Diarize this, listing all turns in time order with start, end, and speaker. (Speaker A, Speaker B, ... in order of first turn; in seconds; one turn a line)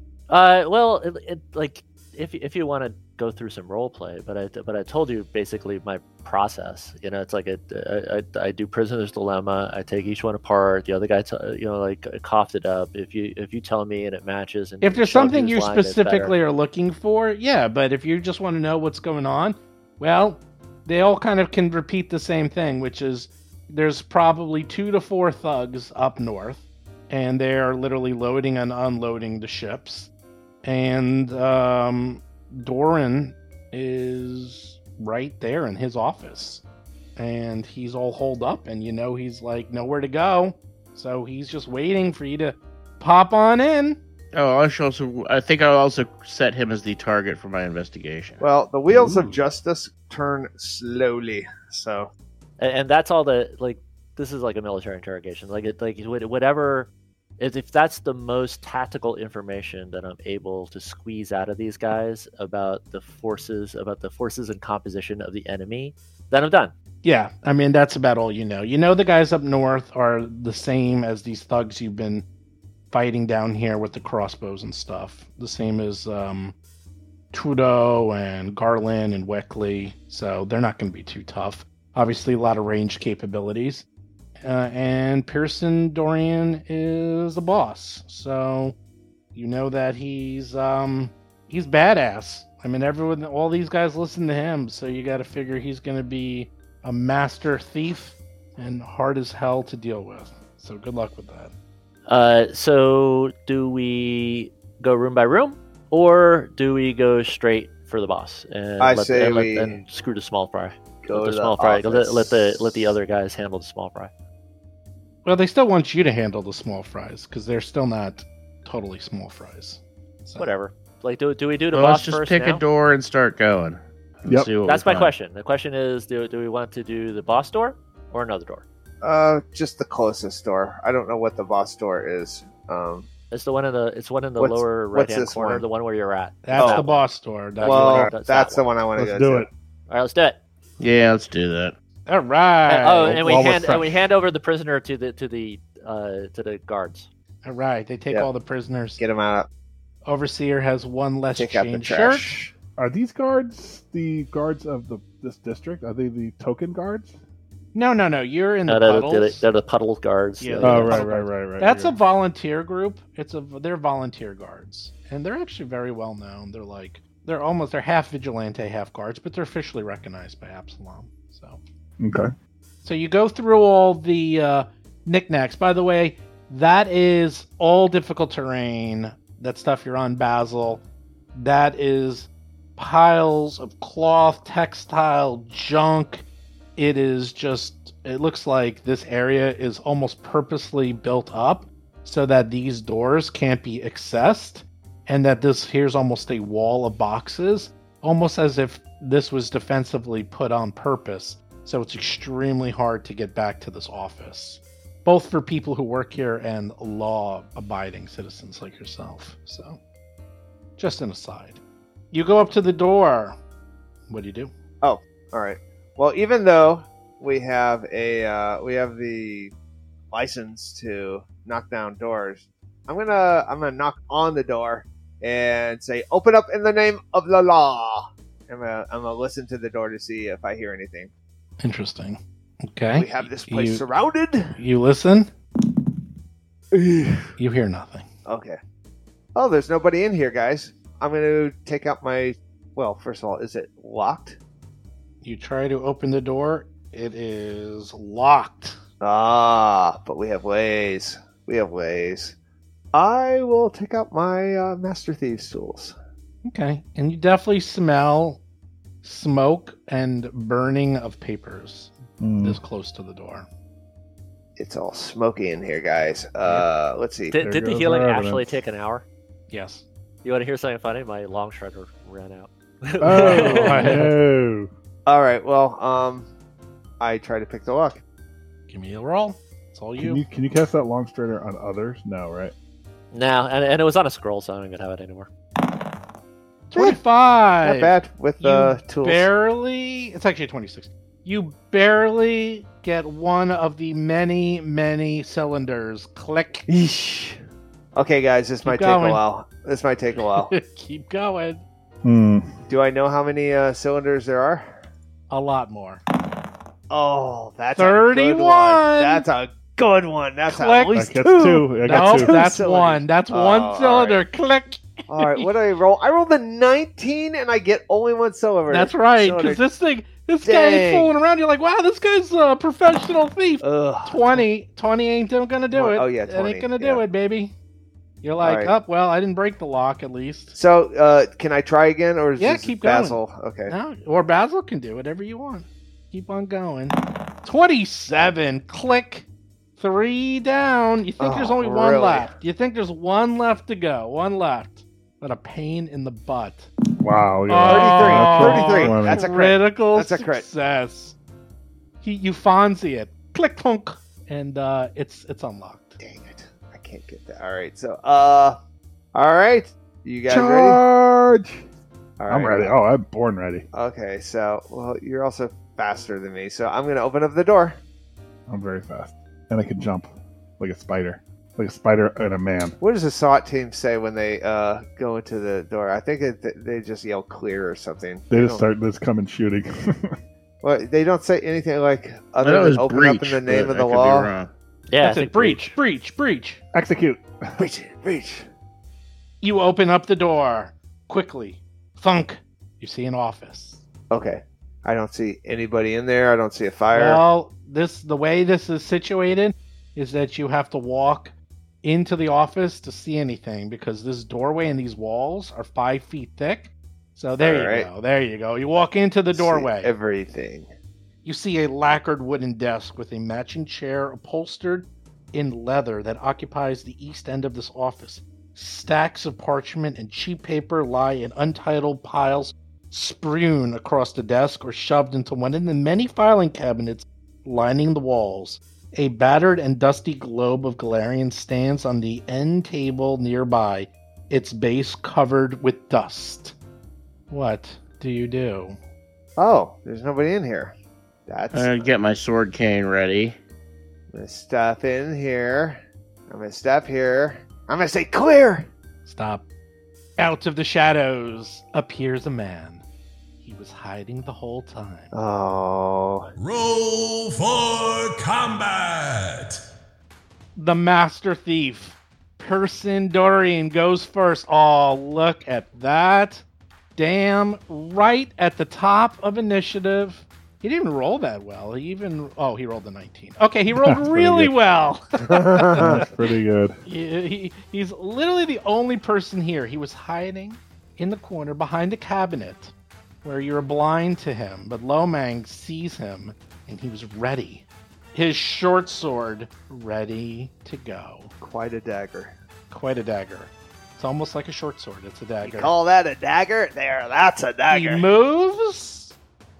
Speaker A: 0.3-16.4
Speaker B: 14.8-30.1
Speaker B: 30.6-36.6
Speaker B: 37.1-44.0
Speaker C: 44.3-48.4
Speaker D: 48.4-52.1
Speaker A: 52.6-66.7
Speaker B: 67.0-72.2
Speaker B: 72.9-76.5
Speaker B: 77.3-83.8
Speaker B: 84.4-88.8
Speaker B: 89.3-101.5
Speaker A: 102.1-114.1
Speaker D: 108.8-109.8
Speaker D: 111.0-112.9
Speaker B: 115.2-120.5
Speaker A: 120.4-122.6
Speaker C: 121.7-125.1
Speaker A: 124.6-128.6
Speaker D: 129.0-133.1
Speaker A: 133.3-137.1
Speaker D: 134.4-135.6
Speaker B: 136.4-138.1
Speaker D: 136.6-136.8
Speaker A: 137.6-138.7
Speaker D: 137.6-139.5
Speaker E: 137.7-138.1
Speaker E: 138.9-139.5
Speaker A: 139.9-140.4
Speaker C: 140.8-141.7
Speaker B: 142.1-143.2
Speaker A: 142.7-147.1
Speaker E: 143.1-144.0
Speaker B: 147.4-149.0
Speaker D: 149.0-149.5
Speaker B: 150.0-152.3
Speaker D: 151.3-152.5
Speaker E: 152.8-157.2
Speaker B: 157.7-159.4
Speaker A: 158.7-161.0
Speaker B: 160.4-171.6
Speaker E: 160.6-161.9
Speaker E: 172.0-172.3
Speaker B: 172.8-180.8
Speaker B: 181.3-186.2
Speaker B: 186.8-209.8
Speaker B: 210.8-211.6
Speaker B: 212.1-213.4
Speaker B: 214.1-214.5
Speaker D: 214.8-219.5
Speaker D: 220.1-231.1
Speaker B: 231.6-233.8
Speaker D: 232.9-234.6
Speaker B: 234.5-235.3
Speaker D: 236.7-237.3
Speaker B: 237.4-238.1
Speaker D: 238.2-238.6
Speaker D: 239.3-244.4
Speaker B: 245.2-248.8
Speaker D: 249.0-252.3
Speaker D: 252.9-255.9
Speaker B: 256.4-258.4
Speaker B: 259.0-263.5
Speaker E: 262.2-262.6
Speaker D: 264.6-267.4
Speaker A: 267.3-269.0
Speaker E: 267.4-268.6
Speaker B: 269.5-269.9
Speaker A: 270.2-274.1
Speaker E: 273.0-274.7
Speaker B: 273.1-274.1
Speaker D: 275.1-276.3
Speaker D: 277.0-278.0
Speaker B: 278.7-280.2
Speaker E: 280.0-282.5
Speaker A: 283.1-285.3
Speaker B: 286.7-296.6
Speaker D: 287.6-289.3
Speaker D: 296.7-297.4
Speaker D: 297.9-300.5
Speaker B: 298.6-299.2
Speaker B: 300.1-301.6
Speaker E: 302.0-302.6
Speaker D: 302.7-304.8
Speaker B: 305.3-306.0
Speaker D: 306.9-314.2
Speaker B: 307.7-309.2
Speaker B: 310.5-311.1
Speaker E: 310.9-312.4
Speaker B: 311.8-315.5
Speaker D: 315.1-319.6
Speaker B: 318.7-327.5
Speaker D: 320.4-321.1
Speaker D: 323.6-324.5
Speaker D: 325.7-327.0
Speaker B: 328.2-330.6
Speaker D: 328.4-328.7
Speaker D: 330.5-333.7
Speaker B: 332.4-346.7
Speaker D: 341.2-342.3
Speaker E: 347.0-349.3
Speaker B: 347.5-351.1
Speaker D: 347.7-350.5
Speaker B: 352.0-356.0
Speaker D: 356.0-358.6
Speaker D: 359.1-360.8
Speaker E: 360.3-361.6
Speaker D: 362.2-362.8
Speaker E: 362.3-363.6
Speaker D: 363.7-367.8
Speaker E: 368.5-372.8
Speaker D: 372.8-378.6
Speaker E: 378.3-380.1
Speaker D: 380.6-384.3
Speaker C: 382.4-384.5
Speaker A: 384.9-385.6
Speaker B: 385.0-386.6
Speaker E: 386.7-387.7
Speaker D: 387.6-388.4
Speaker B: 389.4-393.8
Speaker D: 394.1-397.2
Speaker B: 396.9-409.9
Speaker D: 407.4-407.9
Speaker D: 409.3-410.7
Speaker B: 411.2-436.6
Speaker B: 437.3-438.8
Speaker D: 439.4-440.7
Speaker D: 441.3-441.9
Speaker C: 441.5-443.4
Speaker D: 444.1-448.7
Speaker B: 449.0-449.4
Speaker B: 450.2-452.8
Speaker B: 453.4-455.1
Speaker D: 455.1-456.3
Speaker F: 456.4-459.6
Speaker B: 460.6-466.4
Speaker B: 466.9-476.1
Speaker E: 473.7-474.5
Speaker D: 475.3-476.0
Speaker E: 475.7-476.8
Speaker B: 476.8-482.7
Speaker B: 483.2-491.3
Speaker D: 491.4-492.3
Speaker B: 492.7-495.7
Speaker D: 495.4-498.1
Speaker B: 497.7-499.1